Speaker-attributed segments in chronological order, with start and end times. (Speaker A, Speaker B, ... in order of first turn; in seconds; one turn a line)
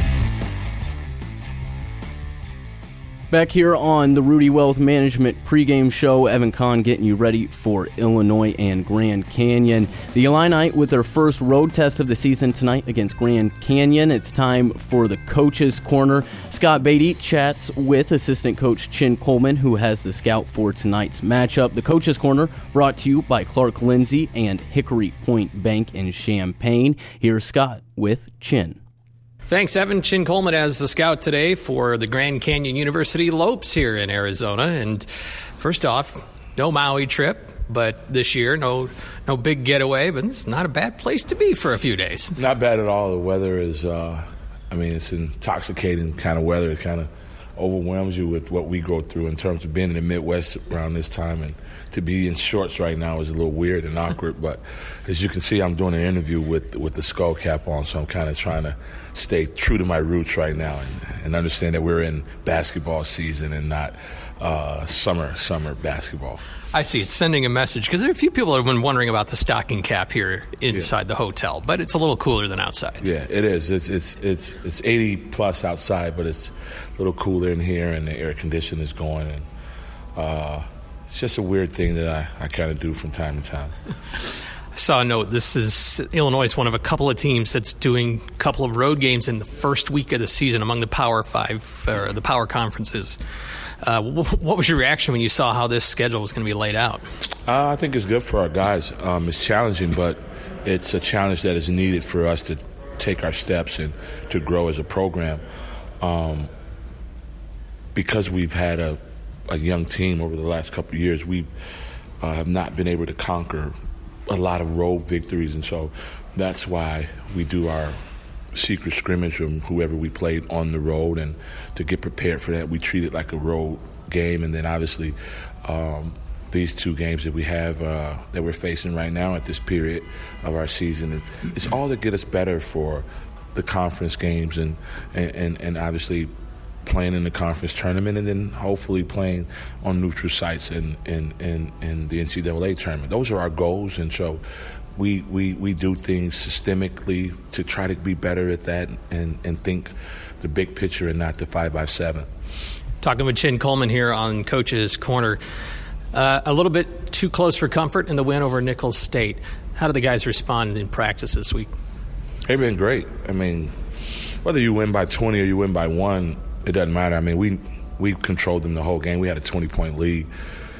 Speaker A: 3.3-28.8
Speaker B: 29.5-35.1
Speaker B: 35.6-42.3
Speaker C: 42.4-66.4
Speaker B: 66.7-73.1
Speaker C: 73.0-79.5
Speaker C: 80.1-83.8
Speaker B: 84.8-93.2
Speaker B: 93.8-97.0
Speaker C: 97.5-105.4
Speaker C: 106.0-106.5
Speaker C: 108.0-111.5
Speaker C: 112.2-113.8
Speaker C: 114.3-118.0
Speaker C: 118.5-136.3
Speaker C: 136.8-144.4
Speaker C: 145.0-152.3
Speaker B: 153.0-155.4
Speaker B: 156.1-161.7
Speaker C: 162.5-163.8
Speaker C: 164.4-170.3